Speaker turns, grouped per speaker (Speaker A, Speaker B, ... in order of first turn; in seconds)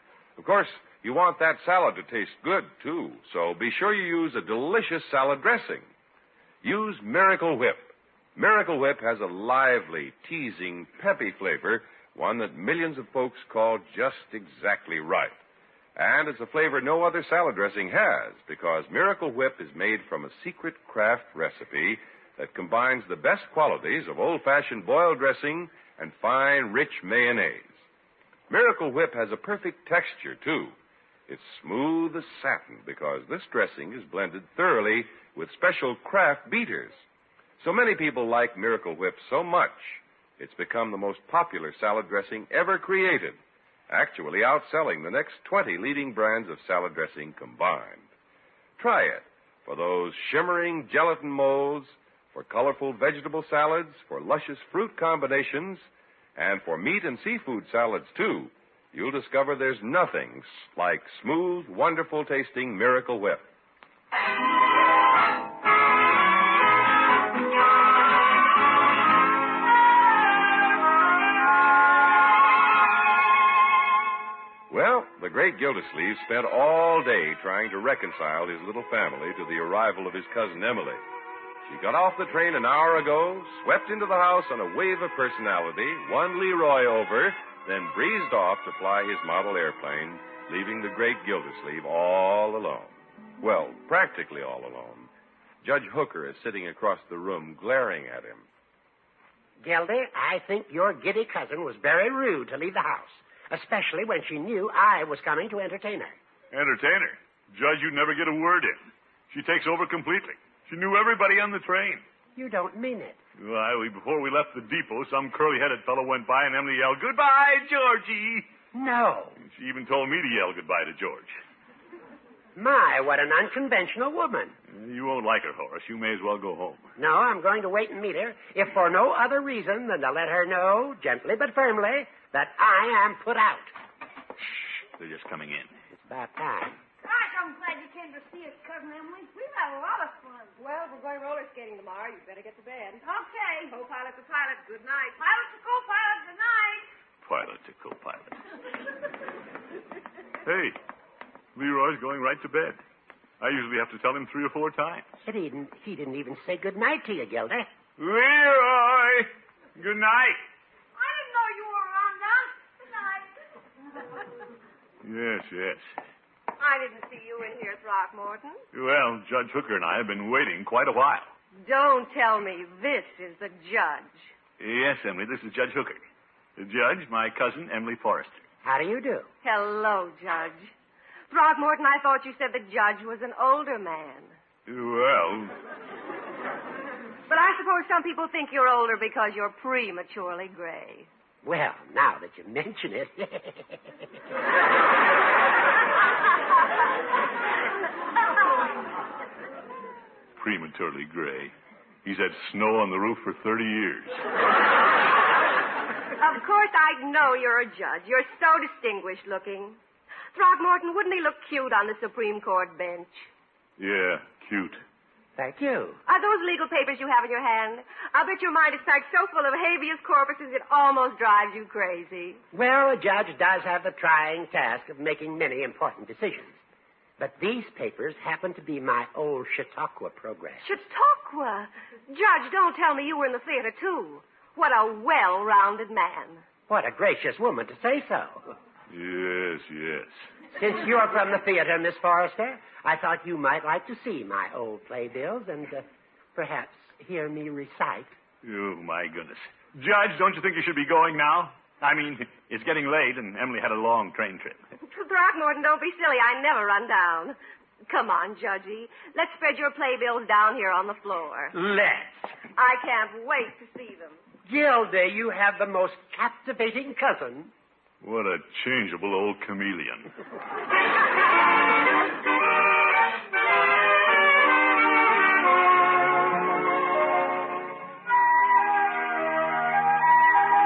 Speaker A: 0.4-5.9, 6.6-15.3, 15.9-27.8, 28.5-30.7, 31.3-37.0, 37.6-43.4, 43.9-48.1, 48.8-55.8, 56.4-63.4, 74.7-81.0, 81.6-95.1, 95.6-98.4
Speaker B: 99.6-106.2, 112.3-113.2, 118.7-119.4, 122.5-124.5, 127.0-133.7, 135.9-136.8, 155.2-157.7, 178.6-179.3, 191.4-193.9, 215.4-216.0, 222.5-226.6, 227.2-230.6, 236.7-238.5, 240.5-248.2, 261.5-262.3, 264.4-267.5
Speaker C: 106.5-112.0, 113.4-118.5, 119.4-121.4, 124.7-126.9, 134.8-135.7, 147.2-148.4, 150.4-150.8, 151.5-152.8, 153.4-155.1, 158.0-160.4, 165.0-165.9, 168.7-171.3, 174.6-176.0, 176.6-178.4, 184.7-185.5, 200.4-201.5, 202.0-204.2, 213.8-214.8, 238.9-240.2, 248.4-254.6, 268.0-270.1
Speaker D: 137.0-140.5, 143.0-143.7, 145.2-146.9, 160.9-163.3
Speaker E: 140.6-143.0, 143.7-145.2, 166.6-168.6, 171.6-174.3, 179.4-180.7, 181.3-184.3, 187.3-191.1, 206.2-209.8, 210.3-213.3, 216.1-222.4, 230.6-236.4, 254.8-261.6, 262.5-264.2